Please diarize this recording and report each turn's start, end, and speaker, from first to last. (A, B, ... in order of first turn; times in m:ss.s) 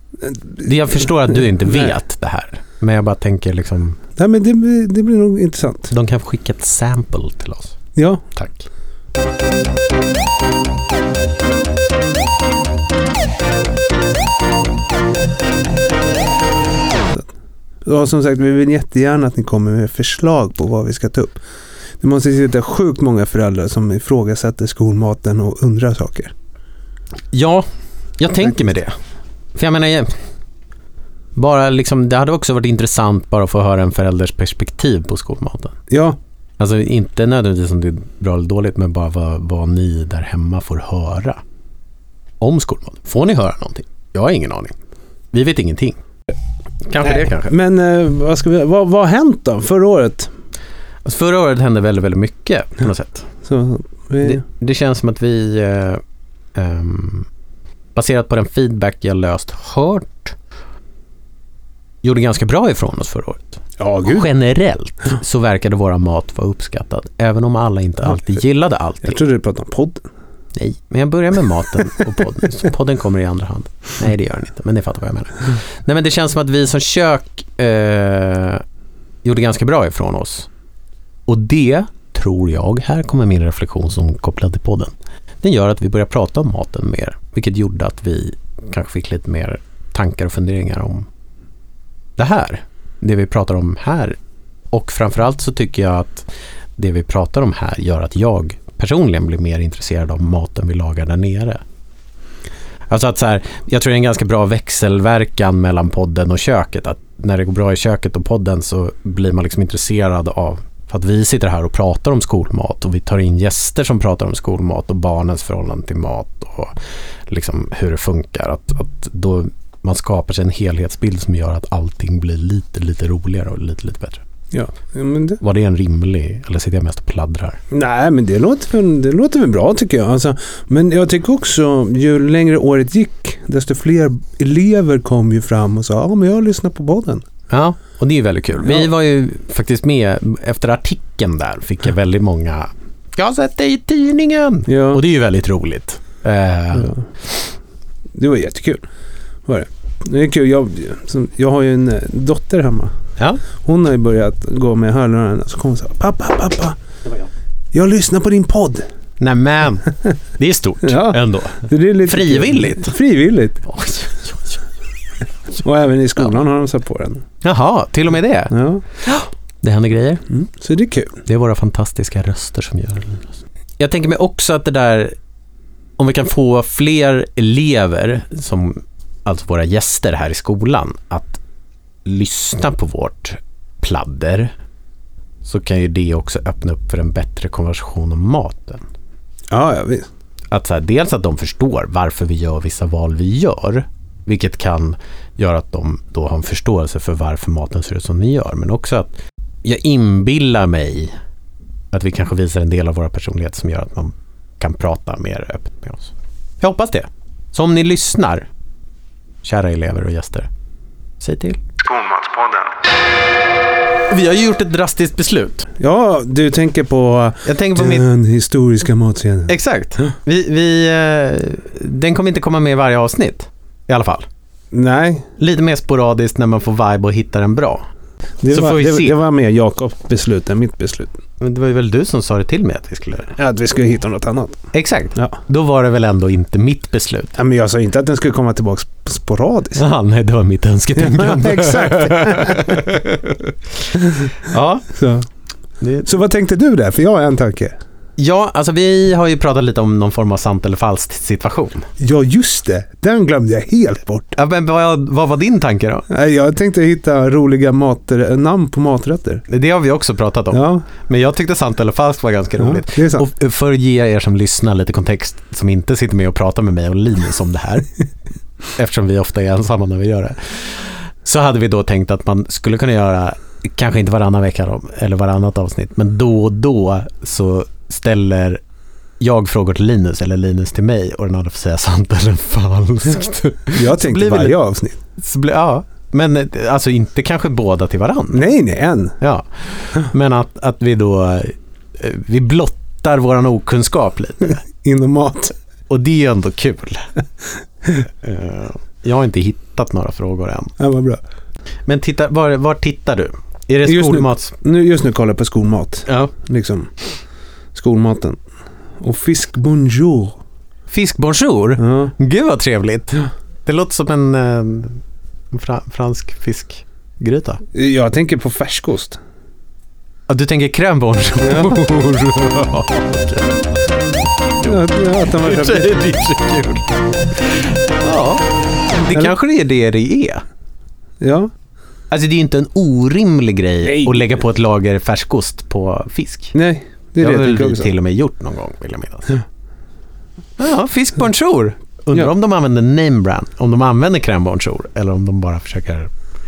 0:00.2-0:01.9 A
0:00.6-0:04.0 B
0:04.2-0:05.9 A
0:05.9-0:07.8 B
0:08.0-0:08.2 A
0:08.4-0:08.7 B
0:17.8-0:21.4 A
0:22.0-0:26.3 A
0:27.3-0:27.7 B
0:28.2-0:28.9 B
0:29.6-0:30.1 B
0:31.4-0:35.8 B
0:35.9-0:36.2 A
0:36.6-0:41.4 B
0:42.4-0:44.7 B
0:45.3-0:46.0 B
0:46.8-0:47.5 B
0:47.0-0:50.3 A
0:51.0-0:53.3 B
0:53.4-0:54.4 A
0:54.2-0:56.0 B
0:56.6-0:57.3 B
0:58.0-1:00.4 B
1:02.0-1:09.2 B
1:03.8-1:04.3 A
1:09.0-1:10.1 A
1:10.6-1:18.6 B
1:19.2-1:20.5 B
1:21.3-1:31.1 B
1:32.2-1:34.2 B
1:34.7-1:41.6 B
1:42.9-1:56.8 B
1:57.3-2:04.2 B
2:04.5-2:05.4 A
2:05.4-2:07.6 B
2:07.7-2:17.2 A
2:17.5-2:27.0 B
2:18.6-2:18.9 A
2:24.7-2:25.0 A
2:28.2-2:28.8 A
2:29.5-2:32.9 A
2:33.6-2:36.8 A
2:37.7-2:38.8 A
2:39.2-2:43.0 B
2:40.8-2:43.6 A
2:43.7-2:44.6 B
2:45.6-2:47.2 A
2:47.4-2:50.2 B
2:48.5-2:48.8 A
2:50.3-2:51.2 A
2:51.3-2:55.2 B
2:56.0-3:01.4 B
3:02.0-3:04.5 B
3:05.4-3:08.8 B
3:09.5-3:10.1 A
3:10.5-3:21.1 B
3:21.9-3:28.5 B
3:29.4-3:30.5 B
3:31.2-3:31.6 B
3:31.8-3:32.7 A
3:34.1-3:35.7 B
3:35.8-3:39.6 A
3:37.4-3:38.0 B
3:39.5-3:44.3 B
3:44.7-3:45.3 A
3:45.4-3:47.8 B
3:48.4-3:51.2 A
3:48.5-3:49.2 B
3:51.4-3:53.3 B
3:53.4-3:54.6 A
3:54.7-3:57.4 B
3:57.4-3:59.8 A
3:59.8-4:03.5 B
4:01.0-4:02.8 A
4:04.4-4:05.0 B
4:04.9-4:05.3 A
4:05.8-4:06.1 B
4:06.0-4:07.8 A
4:08.2-4:11.9 B
4:12.0-4:14.4 A
4:14.4-4:16.1 B
4:16.1-4:19.4 A
4:19.5-4:27.9 B
4:20.5-4:20.9 A
4:22.6-4:23.3 A
4:28.8-4:38.6 B
4:39.2-4:44.6 B
4:43.7-4:45.0 A
4:45.2-4:48.4 B
4:48.3-4:49.2 A
4:49.2-4:54.6 B
4:54.8-4:55.5 A
4:55.9-4:57.0 B
4:58.2-5:00.7 B
5:00.8-5:01.2 A
5:01.9-5:04.5 B
5:03.8-5:06.9 A
5:06.1-5:06.3 B
5:07.8-5:08.4 A
5:09.0-5:10.4 A
5:10.9-5:15.0 B
5:11.8-5:12.1 A
5:15.5-5:17.6 B
5:17.7-5:19.2 A
5:20.3-5:23.7 B
5:21.4-5:21.8 A
5:24.6-5:27.0 B
5:24.6-5:26.0 A
5:27.5-5:30.4 B
5:31.2-5:31.5 A
5:32.1-5:36.6 B
5:33.9-5:34.3 A
5:36.5-5:37.9 A
5:37.2-5:39.4 B
5:40.6-5:46.1 B